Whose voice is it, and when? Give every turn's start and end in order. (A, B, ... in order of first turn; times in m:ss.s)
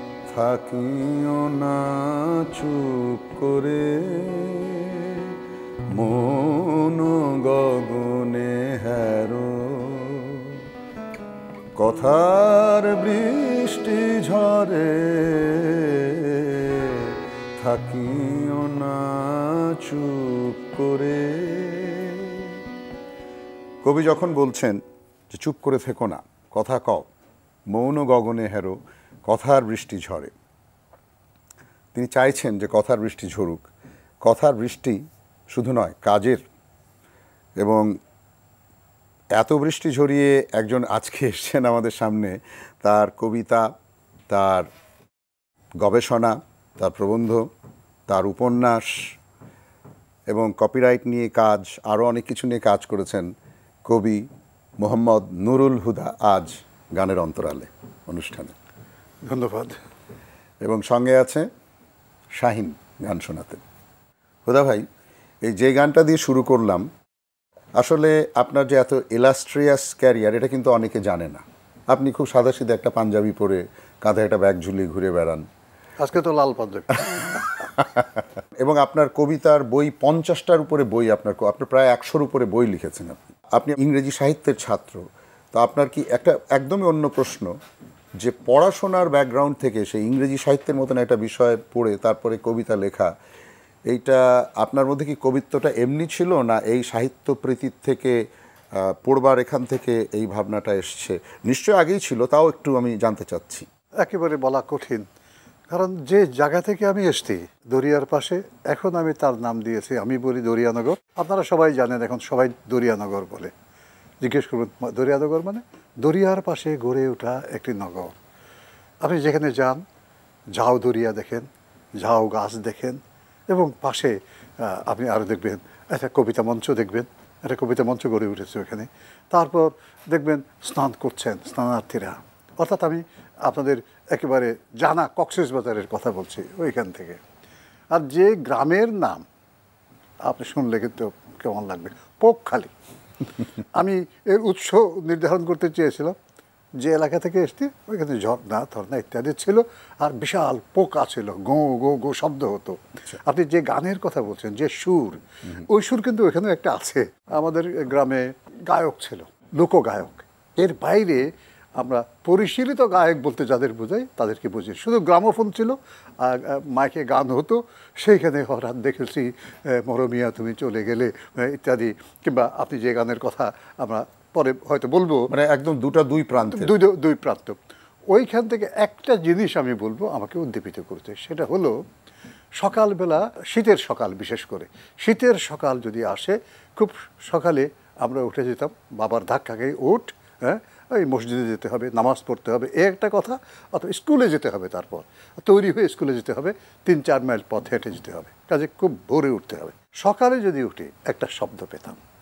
0:00.3-0:05.4 A
0:05.9-0:10.6 A
0:11.8-0:22.6 A
0:23.8-0:24.8 A
0:25.3-0:27.1 A
0:27.7-0:30.3 A
0:31.9-0:33.6 A
0:34.2-0:36.4 A
0:37.6-0:37.9 A
0:39.4-0:43.6 A
0:44.3-0:44.7 A
0:45.8-0:47.4 A
0:48.1-0:49.1 A
0:50.3-0:53.3 A
0:53.9-0:54.2 A
0:54.8-0:58.6 A
0:59.2-0:59.8 B
1:00.6-1:01.5 A
1:02.4-1:03.6 A
1:04.5-1:04.9 A
1:05.4-1:06.9 A
1:07.8-1:15.5 A
1:16.0-1:17.6 B
1:17.1-1:27.6 A
1:28.2-1:33.1 A
1:33.9-1:38.2 A
1:38.8-1:43.7 A
1:44.0-1:45.1 B
1:45.7-1:53.5 B
1:54.2-1:58.2 B
1:59.0-1:59.8 B
2:00.6-2:01.5 B
2:02.0-2:17.2 B
2:17.9-2:19.3 B
2:20.3-2:22.7 B
2:23.8-2:26.2 B
2:26.8-2:55.3 B
2:55.3-2:56.7 A
2:56.5-2:57.6 B
2:58.1-3:01.8 B
3:02.6-3:22.0 B